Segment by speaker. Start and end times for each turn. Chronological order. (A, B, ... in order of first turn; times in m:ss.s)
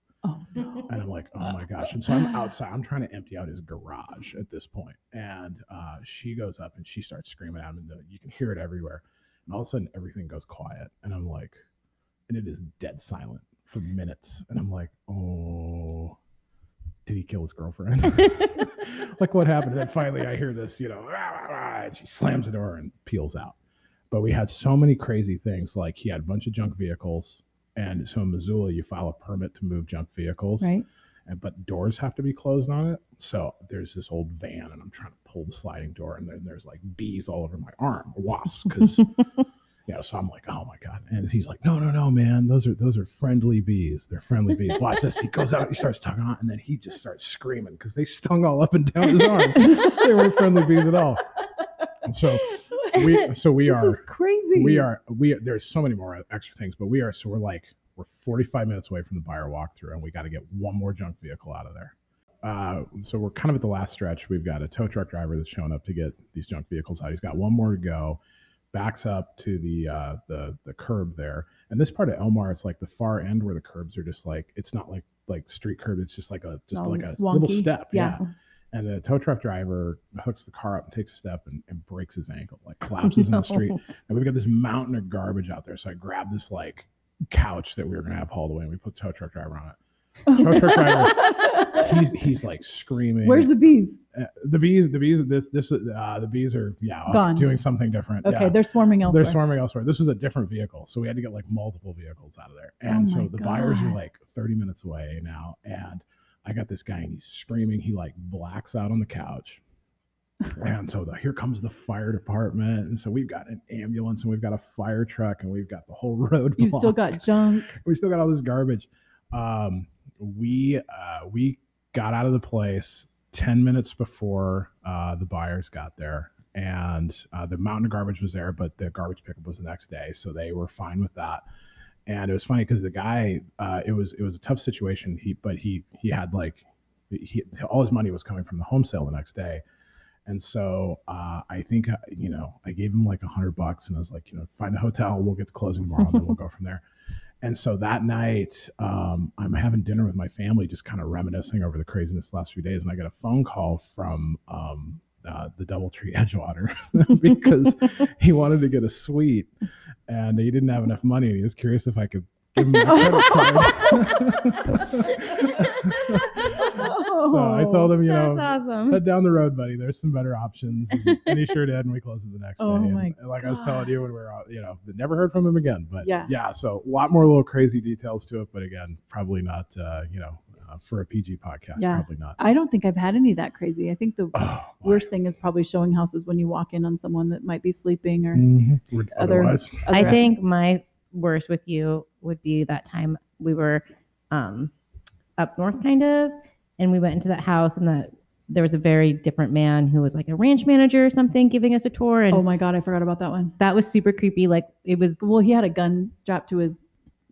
0:00.2-0:00.9 A
0:00.8-0:11.6 B
0:12.3-0:16.2 B
0:17.0-0:23.6 B
0:24.1-0:30.7 B
0:31.3-0:39.1 B
0:39.9-0:51.2 B
0:49.7-0:50.0 A
0:52.0-0:54.0 B
0:53.6-0:54.9 A
0:54.5-1:08.2 B
1:08.7-1:29.8 B
1:16.7-1:18.2 A
1:30.3-1:31.9 A
1:30.3-1:33.5 B
1:33.2-1:34.0 A
1:34.1-1:49.6 B
1:37.1-1:37.5 A
1:38.2-1:39.4 A
1:42.9-1:44.0 A
1:50.5-1:57.1 B
1:56.6-1:57.7 A
1:57.7-2:11.4 B
2:12.0-2:19.6 B
2:20.2-2:26.8 B
2:27.4-2:39.5 B
2:40.1-3:02.4 B
2:42.9-2:44.2 A
2:45.6-2:47.9 A
2:48.0-2:49.0 C
2:52.6-2:53.9 A
2:56.0-2:56.3 A
3:01.8-3:08.5 A
3:04.3-3:05.1 B
3:08.3-3:10.2 B
3:09.1-3:10.2 A
3:09.9-3:14.7 C
3:15.4-3:22.4 C
3:22.3-3:23.6 A
3:23.6-3:25.2 C
3:25.2-3:26.9 A